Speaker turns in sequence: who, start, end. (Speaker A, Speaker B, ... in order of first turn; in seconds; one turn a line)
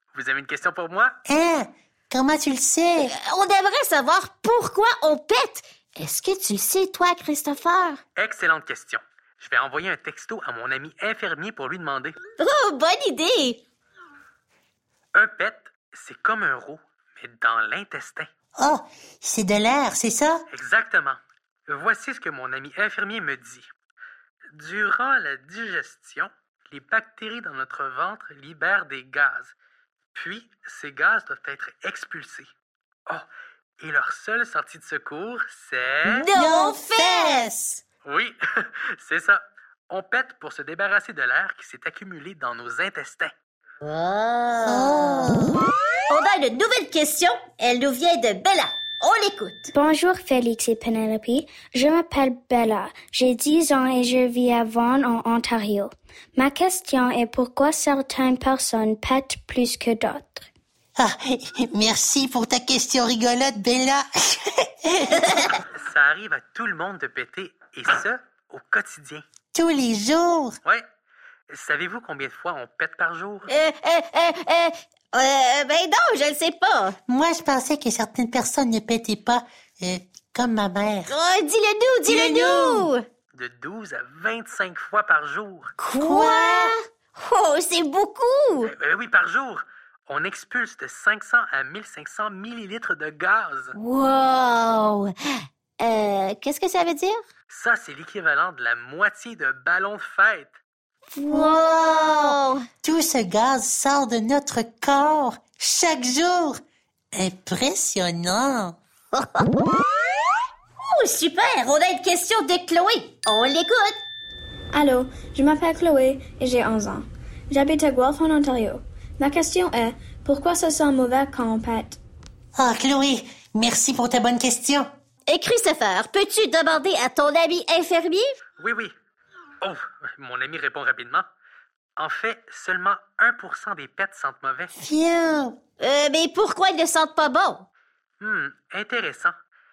Speaker A: 0.1-1.1
Speaker B: 1.3-3.1
Speaker C: 3.1-8.0
Speaker A: 8.2-12.2
Speaker C: 12.4-13.6
Speaker A: 15.1-18.3
Speaker B: 18.6-20.4
Speaker A: 20.5-23.7
Speaker A: 24.6-29.5
Speaker A: 30.1-32.5
Speaker A: 33.8-36.3
Speaker C: 36.1-37.5
Speaker B: 36.3-37.8
Speaker A: 38.0-38.4
Speaker A: 39.0-43.3
Speaker C: 43.8-45.3
Speaker B: 44.6-45.6
Speaker C: 46.1-49.7
Speaker D: 49.7-60.5
Speaker B: 61.0-65.2
Speaker A: 65.7-69.2
Speaker B: 69.5-70.6
Speaker A: 71.5-73.5
Speaker C: 73.5-77.0
Speaker B: 77.1-81.1
Speaker C: 81.1-83.0
Speaker B: 82.0-82.9
Speaker A: 83.3-85.7
Speaker C: 85.8-88.7
Speaker B: 86.0-86.8
Speaker A: 88.7-93.7
Speaker C: 93.8-95.1
Speaker C: 95.8-97.2
Speaker A: 97.5-100.5
Speaker C: 101.2-102.6
Speaker B: 101.3-106.6
Speaker B: 107.2-108.8
Speaker C: 109.2-109.5
Speaker C: 110.8-114.0
Speaker E: 114.7-122.0
Speaker B: 122.6-124.9
Speaker C: 125.3-128.4
Speaker A: 128.6-128.9
Speaker A: 129.6-131.2
Speaker A: 132.0-134.7
Speaker B: 134.8-135.6
Speaker C: 135.8-137.7
Speaker A: 138.2-139.3